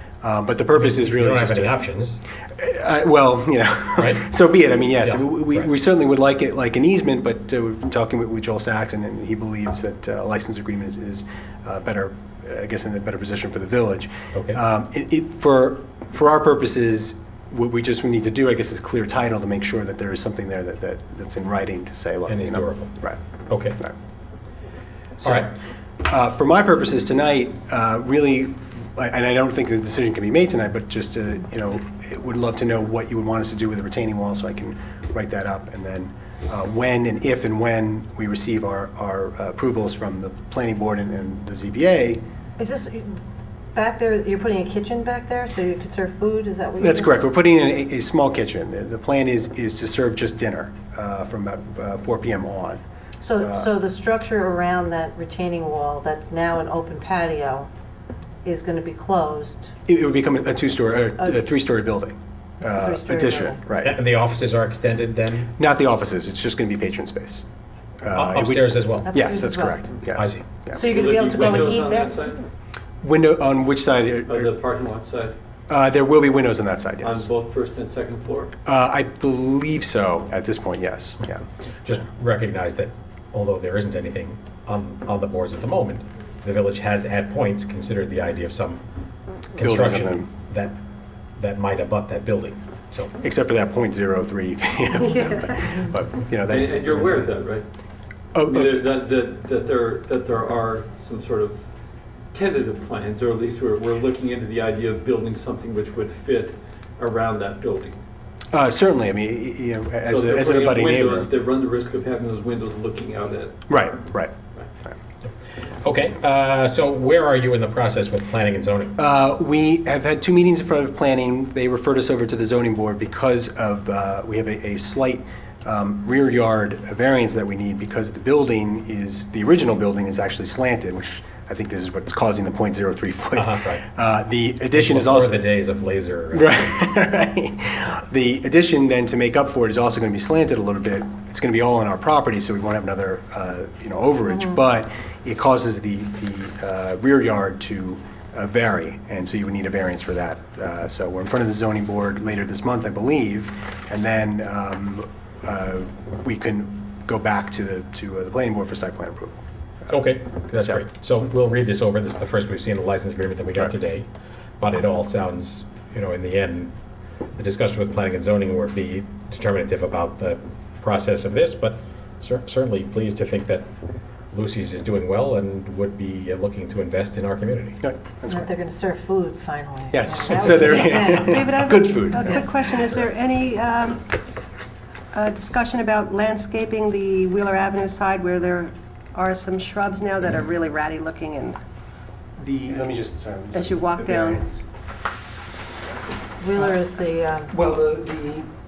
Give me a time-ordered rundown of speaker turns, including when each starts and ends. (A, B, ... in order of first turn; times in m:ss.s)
0:00.2-0:01.9 A
0:00.8-0:02.2 B
0:02.5-0:23.2 A
0:04.0-0:04.3 B
0:05.0-0:05.7 B
0:14.3-0:14.6 B
0:22.3-0:23.8 B
0:25.2-0:25.5 A
0:26.0-0:42.2 A
0:42.6-0:43.1 C
0:43.7-0:47.2 C
0:46.8-0:52.8 A
0:53.2-0:57.7 C
0:53.4-0:53.7 A
0:58.4-0:59.7 C
0:59.9-1:03.9 A
1:02.6-1:03.6 C
1:03.8-1:05.5 B
1:05.6-1:07.4 A
1:08.0-1:10.8 A
1:08.1-1:09.1 B
1:09.1-1:09.9 C
1:10.1-1:10.4 B
1:10.7-1:12.3 C
1:10.8-1:12.4 D
1:13.0-1:14.5 A
1:14.3-1:15.3 D
1:15.7-1:17.3 A
1:17.0-1:18.5 D
1:18.6-1:21.4 A
1:21.8-1:28.8 B
1:29.5-1:30.8 B
1:29.6-1:30.3 A
1:31.4-1:33.2 B
1:33.2-1:37.3 A
1:36.5-1:37.6 D
1:38.3-1:38.8 A
1:38.4-1:41.7 D
1:42.3-1:48.0 D
1:48.5-1:51.3 A
1:50.0-1:53.7 D
1:53.7-1:54.3 A
1:55.2-1:59.0 B
1:59.0-2:15.4 A
2:13.4-2:13.8 B
2:14.7-2:16.6 B
2:16.3-2:39.4 A
2:39.9-2:44.1 B
2:44.6-2:46.7 B
2:47.4-2:53.7 B
2:54.3-2:57.8 B
2:57.8-2:58.6 A
2:58.3-3:01.4 C
2:59.9-3:02.8 A
3:00.6-3:04.1 E
3:05.1-3:11.6 E
3:12.4-3:14.6 A
3:13.5-3:14.4 E
3:16.4-3:17.5 C
3:16.5-3:16.8 A
3:17.5-3:18.5 A